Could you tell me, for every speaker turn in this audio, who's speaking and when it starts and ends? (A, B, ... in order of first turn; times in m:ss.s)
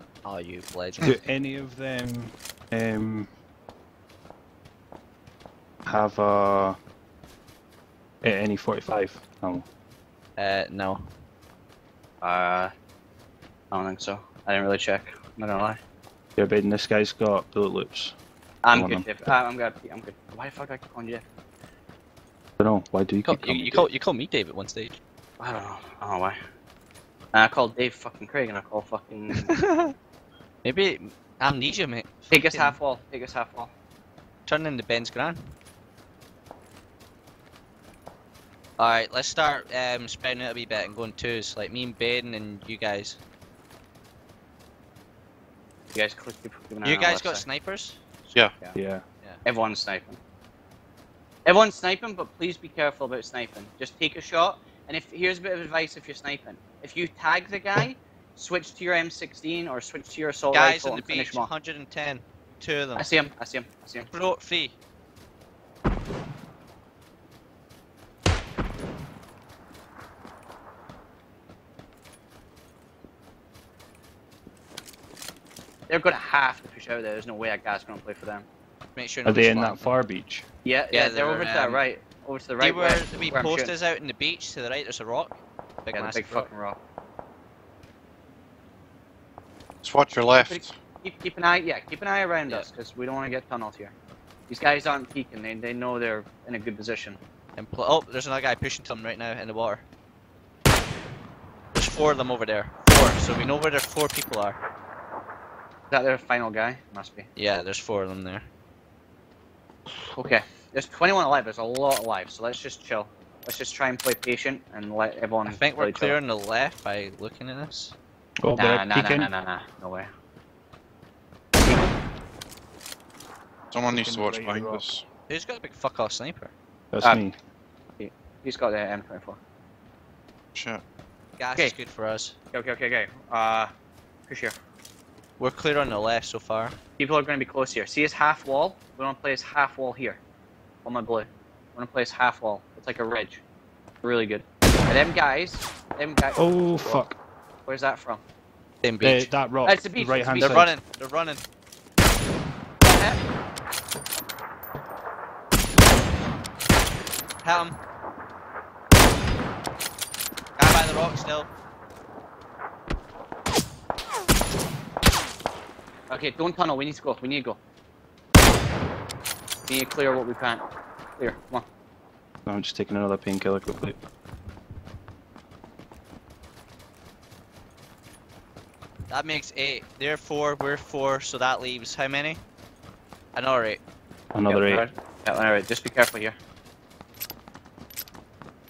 0:00.2-0:01.2 A
0:01.0-0:03.3 B
0:05.9-0:06.8 B
0:08.2-0:09.7 B
0:10.4-0:11.1 A
0:12.2-0:12.7 C
0:13.7-0:15.8 C
0:16.4-0:18.2 B
0:18.6-0:21.2 C
0:18.7-0:19.1 B
0:22.6-0:23.9 B
0:23.2-0:25.0 A
0:25.4-0:26.4 C
0:27.3-0:29.5 C
0:29.3-0:29.9 A
0:30.6-0:32.8 A
0:32.3-0:33.7 C
0:34.5-0:35.5 A
0:38.8-0:43.2 A
0:46.0-0:47.4 C
0:46.8-0:48.0 A
0:48.3-0:48.8 C
0:48.8-0:49.0 B
0:49.4-0:50.2 C
0:51.4-1:01.5 C
1:00.5-1:03.1 A
1:03.0-1:04.1 C
1:04.1-1:04.8 A
1:15.9-1:18.5 C
1:19.0-1:20.0 A
1:19.3-1:20.4 B
1:20.6-1:23.7 C
1:20.9-1:21.8 A
1:22.6-1:26.5 A
1:25.9-1:26.8 C
1:29.8-1:30.7 D
1:30.4-1:33.9 C
1:34.5-1:37.2 C
1:37.6-1:39.8 A
1:41.7-1:44.6 A
1:45.9-1:47.3 C
1:47.4-1:48.5 A
1:50.1-1:56.2 C
1:55.5-1:58.0 A
1:58.4-1:59.3 B
1:58.6-2:00.1 C
2:01.6-2:01.9 C
2:03.7-2:05.0 D
2:03.9-2:04.8 B
2:05.3-2:06.5 A
2:06.9-2:07.4 B
2:08.0-2:09.4 C
2:10.6-2:10.8 D
2:11.4-2:12.4 A
2:12.5-2:13.7 C
2:14.3-2:14.6 C
2:15.4-2:16.8 A
2:17.0-2:20.2 C
2:20.8-2:23.4 C
2:24.0-2:27.1 C
2:26.4-2:27.2 B
2:27.7-2:28.2 C
2:28.8-2:29.3 A
2:29.0-2:30.7 B
2:29.6-2:30.6 C
2:30.4-2:31.4 A
2:32.8-2:33.2 C
2:37.4-2:37.8 A
2:40.6-2:41.5 A
2:46.1-2:47.6 C
2:49.7-2:50.6 C
2:51.2-2:51.7 C
2:52.5-2:54.0 B
2:59.1-3:02.4 A
3:03.3-3:03.8 A
3:04.3-3:04.8 B
3:04.5-3:06.4 C